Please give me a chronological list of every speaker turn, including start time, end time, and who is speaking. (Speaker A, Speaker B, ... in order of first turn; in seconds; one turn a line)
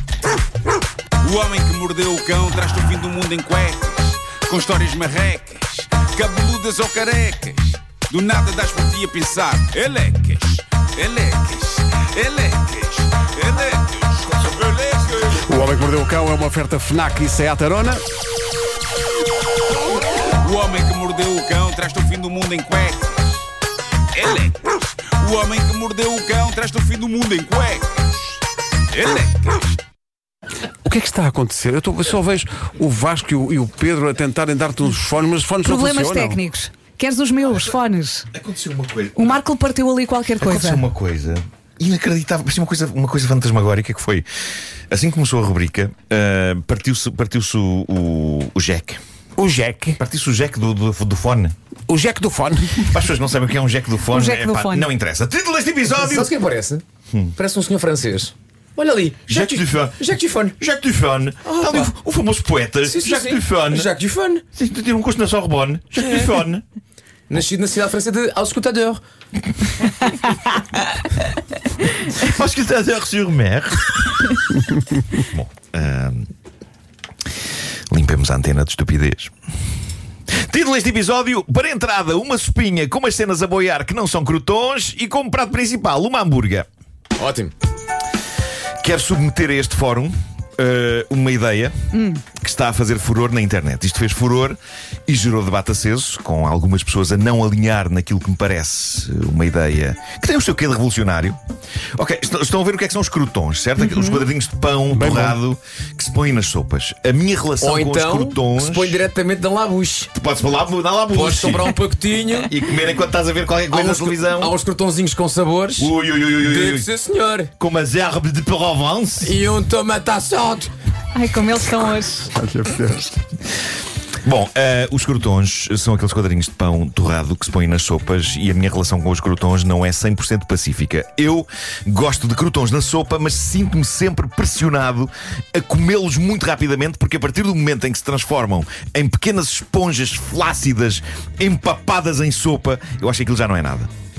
Speaker A: 1.2-15.5
Speaker B: 15.4-18.0
Speaker A: 20.2-23.5
Speaker A: 24.1-29.8
Speaker B: 30.8-36.4
Speaker C: 35.6-38.3
Speaker D: 38.3-39.4
Speaker C: 39.2-40.8
Speaker D: 40.4-44.3
Speaker D: 44.9-49.0
Speaker B: 49.4-50.0
Speaker D: 50.0-51.5
Speaker B: 51.9-53.0
Speaker D: 52.9-56.3
Speaker C: 54.1-54.9
Speaker E: 55.9-56.8
Speaker D: 57.1-57.4
Speaker E: 57.4-60.6
Speaker D: 59.3-60.1
Speaker D: 60.6-63.9
Speaker E: 61.5-61.9
Speaker E: 62.9-64.4
Speaker D: 64.5-66.6
Speaker E: 67.3-69.0
Speaker D: 72.1-74.4
Speaker D: 75.1-76.3
Speaker D: 77.9-79.3
Speaker D: 80.3-86.7
Speaker E: 87.2-87.5
Speaker D: 88.8-91.7
Speaker C: 91.9-92.2
Speaker D: 92.3-101.4
Speaker D: 102.0-109.0
Speaker C: 103.9-104.2
Speaker B: 104.9-105.4
Speaker E: 107.6-110.1
Speaker D: 110.2-111.7
Speaker E: 111.1-112.5
Speaker D: 112.5-114.5
Speaker E: 113.7-117.5
Speaker D: 115.8-116.9
Speaker D: 117.6-119.3
Speaker E: 119.2-120.7
Speaker C: 121.2-122.3
Speaker B: 122.3-123.2
Speaker D: 124.2-143.9